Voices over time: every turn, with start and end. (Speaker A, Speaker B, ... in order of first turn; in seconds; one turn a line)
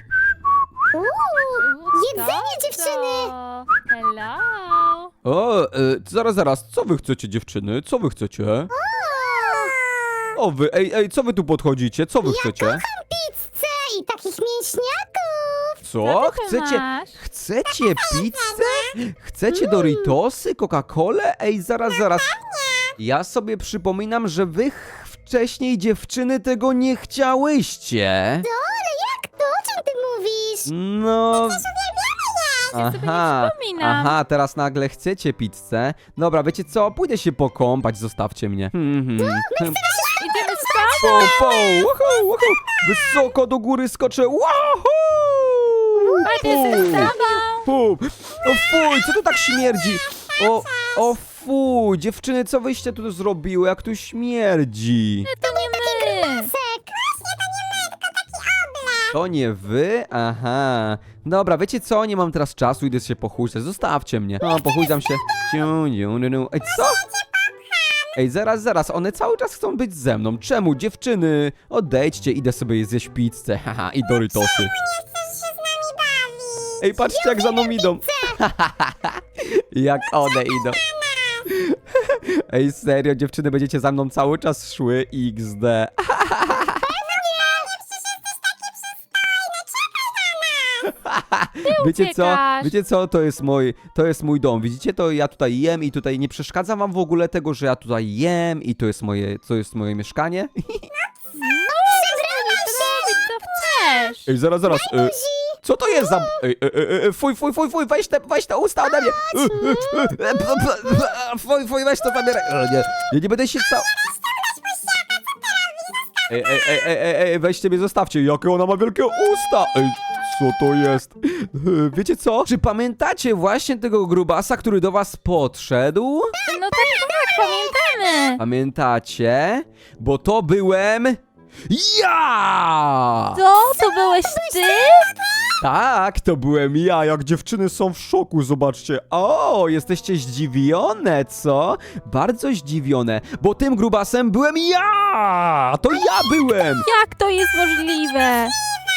Speaker A: 1.1-1.5
Speaker B: 1.6-5.1
Speaker C: 5.2-8.7
Speaker A: 9.0-9.7
Speaker C: 10.3-12.8
Speaker A: 12.9-15.7
Speaker C: 15.8-22.4
Speaker B: 16.0-17.2
Speaker C: 23.0-28.5
Speaker A: 28.5-30.6
Speaker C: 30.6-31.7
Speaker A: 32.2-32.5
Speaker B: 32.7-34.1
Speaker C: 32.7-39.9
Speaker B: 40.1-41.6
Speaker C: 41.0-55.3
Speaker B: 46.2-47.7
Speaker B: 55.2-56.5
Speaker A: 56.5-57.1
Speaker A: 58.6-59.0
Speaker C: 59.1-67.0
Speaker C: 68.2-74.7
Speaker A: 75.6-76.8
Speaker C: 76.8-80.8
Speaker C: 81.4-87.0
Speaker A: 87.1-87.8
Speaker A: 89.6-90.6
Speaker C: 90.8-100.9
Speaker B: 91.6-92.7
Speaker B: 101.3-104.3
Speaker C: 104.2-113.9
Speaker C: 116.3-126.3
Speaker B: 126.5-128.4
Speaker C: 128.4-133.4
Speaker B: 133.3-135.1
Speaker C: 135.6-146.8
Speaker B: 146.8-148.5